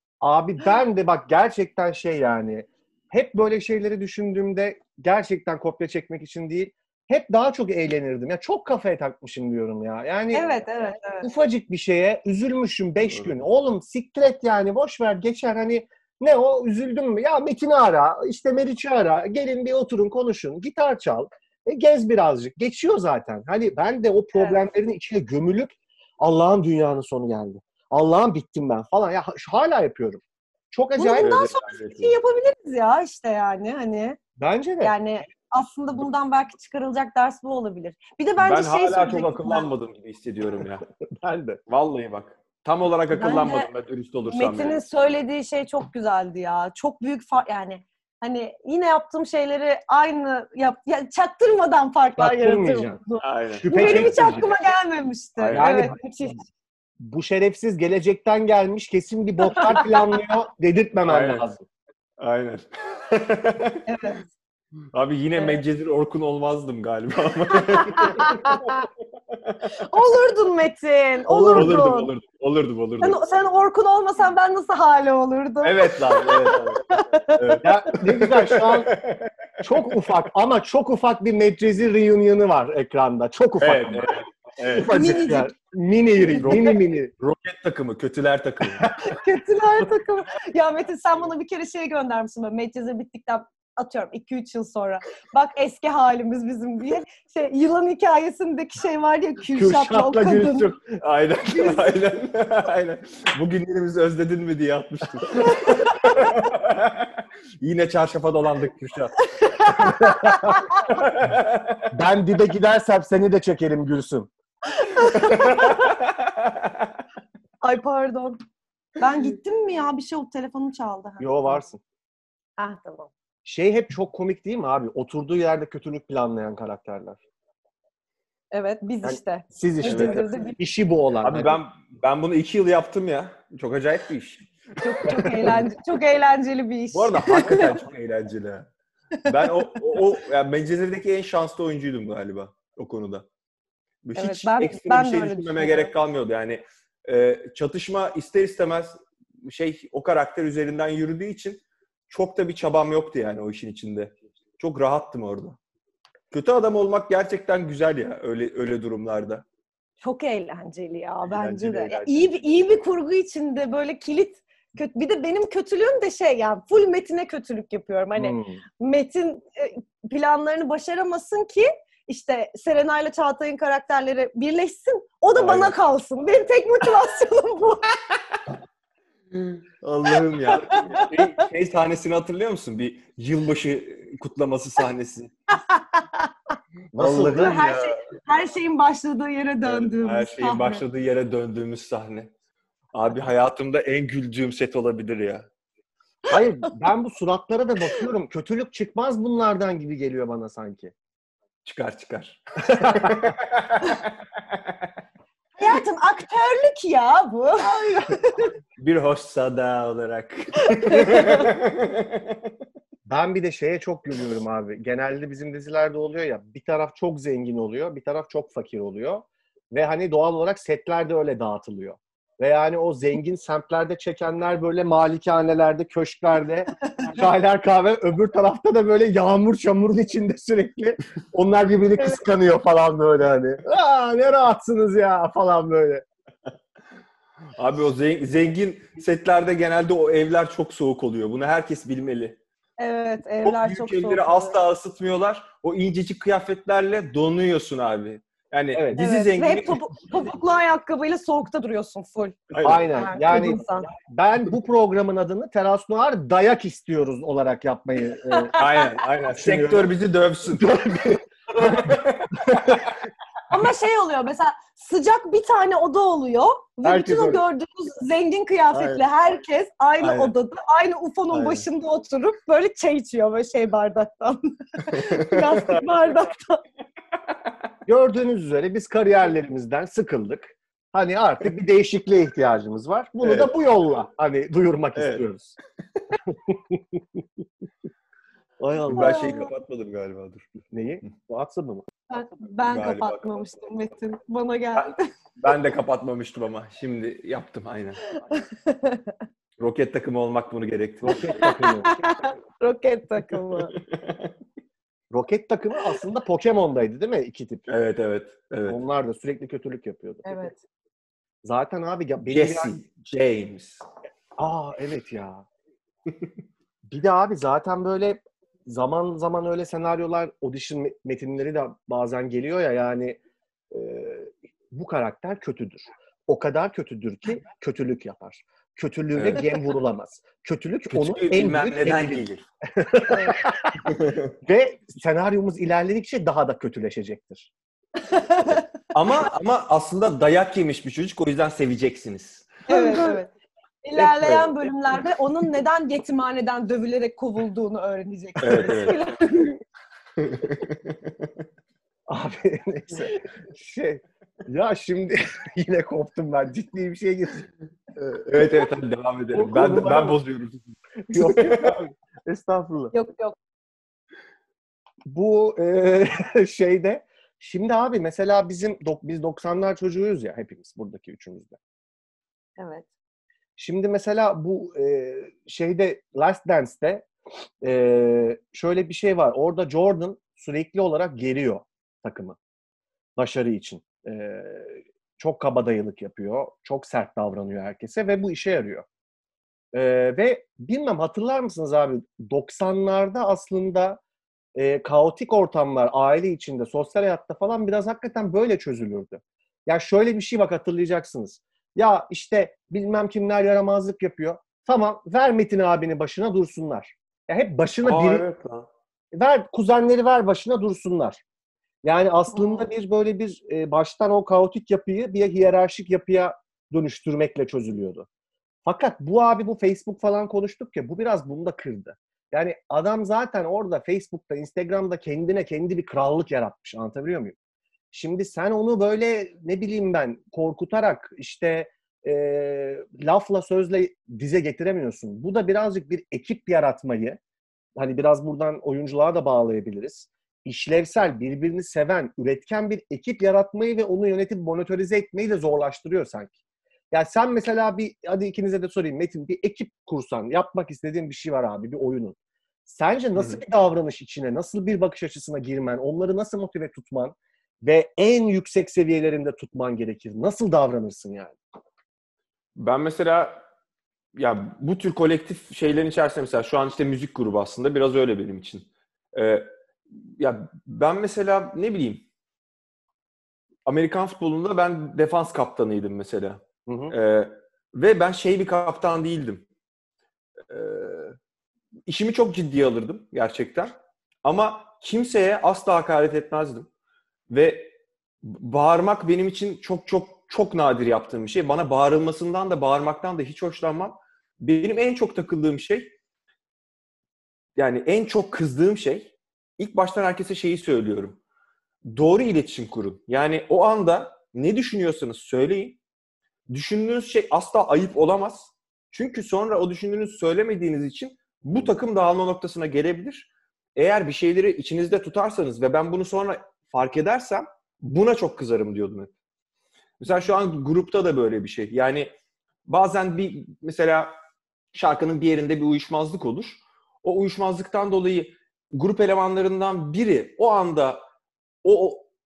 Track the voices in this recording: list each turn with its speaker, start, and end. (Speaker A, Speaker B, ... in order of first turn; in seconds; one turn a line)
Speaker A: 0.2-10.5
Speaker B: 10.3-11.3
Speaker A: 11.2-31.5
Speaker B: 24.3-24.6
Speaker B: 31.0-34.2
Speaker C: 31.1-32.2
Speaker A: 34.4-34.9
Speaker B: 34.8-39.7
Speaker C: 38.4-40.8
Speaker A: 41.2-41.6
Speaker C: 41.7-44.8
Speaker B: 43.1-43.7
Speaker B: 44.3-56.4
Speaker A: 52.2-53.0
Speaker C: 53.2-54.4
Speaker A: 53.5-54.5
Speaker C: 55.4-55.7
Speaker A: 55.5-56.0
Speaker A: 57.0-61.6
Speaker B: 59.5-59.9
Speaker C: 61.1-61.4
Speaker C: 62.2-63.8
Speaker B: 63.9-64.2
Speaker C: 64.9-68.7
Speaker B: 65.3-65.6
Speaker B: 67.6-68.9
Speaker C: 69.3-69.6
Speaker B: 69.8-72.1
Speaker A: 71.3-71.8
Speaker C: 71.5-73.2
Speaker B: 73.0-77.6
Speaker C: 75.6-80.1
Speaker A: 77.6-78.9
Speaker A: 79.6-84.1
Speaker C: 83.6-84.9
Speaker A: 84.7-87.1
Speaker B: 84.9-85.5
Speaker B: 86.2-86.8
Speaker C: 86.4-88.9
Speaker B: 89.0-100.7
Speaker A: 99.5-101.0
Speaker C: 101.0-109.2
Speaker B: 101.5-101.9
Speaker B: 105.4-106.3
Speaker B: 109.2-111.0
Speaker A: 109.8-110.6
Speaker C: 110.9-111.9
Speaker A: 111.9-114.3
Speaker B: 114.7-115.9
Speaker C: 115.2-117.0
Speaker B: 117.6-118.4
Speaker B: 119.0-121.6
Speaker A: 121.2-121.8
Speaker B: 122.6-123.1
Speaker A: 123.4-127.2
Speaker B: 128.5-130.6
Speaker A: 129.0-131.6
Speaker C: 129.8-130.2
Speaker C: 131.2-135.6
Speaker B: 134.8-137.8
Speaker A: 135.1-135.6
Speaker C: 136.9-138.7
Speaker C: 139.2-143.3
Speaker B: 139.4-140.0
Speaker C: 144.0-155.6
Speaker B: 144.2-145.9
Speaker C: 156.3-159.4
Speaker B: 160.0-177.9
Speaker A: 161.3-162.4
Speaker A: 168.2-168.6
Speaker C: 175.3-175.7
Speaker C: 179.8-185.3
Speaker B: 180.4-181.4
Speaker B: 185.7-186.2
Speaker A: 186.9-187.6
Speaker C: 186.9-188.0
Speaker B: 187.3-190.8
Speaker C: 189.6-192.3
Speaker C: 192.9-195.4
Speaker A: 196.3-200.9
Speaker C: 201.6-204.9
Speaker A: 202.8-203.2
Speaker B: 205.6-208.5
Speaker C: 208.8-212.5
Speaker B: 210.7-211.5
Speaker A: 213.1-236.0
Speaker B: 226.9-227.2
Speaker C: 237.6-242.4
Speaker B: 242.8-244.6
Speaker C: 243.4-249.8
Speaker A: 248.7-249.2
Speaker B: 249.0-253.8
Speaker C: 252.5-253.1
Speaker A: 252.6-258.5
Speaker B: 258.3-259.0
Speaker C: 258.6-262.8
Speaker A: 259.3-259.9
Speaker A: 260.9-261.9
Speaker B: 263.5-276.6
Speaker A: 266.8-267.4
Speaker C: 268.7-269.0
Speaker C: 270.0-270.3
Speaker C: 271.3-271.6
Speaker C: 274.9-275.8
Speaker A: 277.9-285.5
Speaker C: 283.2-283.5
Speaker C: 284.9-285.2
Speaker A: 286.5-287.0
Speaker A: 288.6-289.4
Speaker B: 288.9-289.5
Speaker C: 288.9-290.5
Speaker A: 290.7-291.9
Speaker B: 292.1-295.1
Speaker C: 292.6-293.5
Speaker C: 294.7-298.0
Speaker B: 298.1-299.1
Speaker C: 299.6-301.4
Speaker A: 301.0-302.2
Speaker B: 301.4-303.7
Speaker C: 303.6-304.3
Speaker A: 305.1-307.7
Speaker C: 307.7-308.8
Speaker A: 308.7-310.6
Speaker B: 310.2-310.6
Speaker A: 311.4-312.7
Speaker C: 312.3-313.8
Speaker A: 314.4-315.4
Speaker A: 316.9-323.2
Speaker A: 323.7-332.2
Speaker C: 329.1-329.4
Speaker C: 330.9-332.4
Speaker A: 332.8-333.8
Speaker C: 333.9-334.3
Speaker A: 334.4-337.5
Speaker B: 338.0-338.6
Speaker C: 338.9-342.6
Speaker B: 342.7-343.3
Speaker B: 343.8-349.6
Speaker C: 343.9-344.5
Speaker C: 348.4-349.0
Speaker C: 350.2-351.3
Speaker A: 352.1-358.6
Speaker C: 358.3-361.7
Speaker A: 359.3-360.2
Speaker A: 361.1-362.9
Speaker B: 362.9-363.4
Speaker A: 365.1-371.6
Speaker B: 372.6-372.9
Speaker A: 373.6-377.1
Speaker A: 377.6-382.4
Speaker A: 383.2-388.9
Speaker A: 389.7-394.0
Speaker A: 394.6-408.2
Speaker C: 407.8-408.7
Speaker A: 409.1-411.2
Speaker A: 411.8-418.1
Speaker B: 412.3-412.7
Speaker A: 418.6-427.4
Speaker A: 427.9-437.2
Speaker A: 437.8-446.3
Speaker A: 446.9-461.4
Speaker C: 453.1-453.4
Speaker C: 462.6-463.4
Speaker C: 464.1-472.0
Speaker C: 473.6-479.4
Speaker A: 476.7-476.9
Speaker C: 480.5-481.1
Speaker C: 481.9-483.7
Speaker C: 484.2-486.7
Speaker C: 487.3-495.9
Speaker C: 497.6-501.2
Speaker C: 501.9-505.8
Speaker C: 506.5-519.1
Speaker C: 520.0-522.1
Speaker C: 522.6-524.1
Speaker C: 524.7-531.0
Speaker C: 531.6-532.1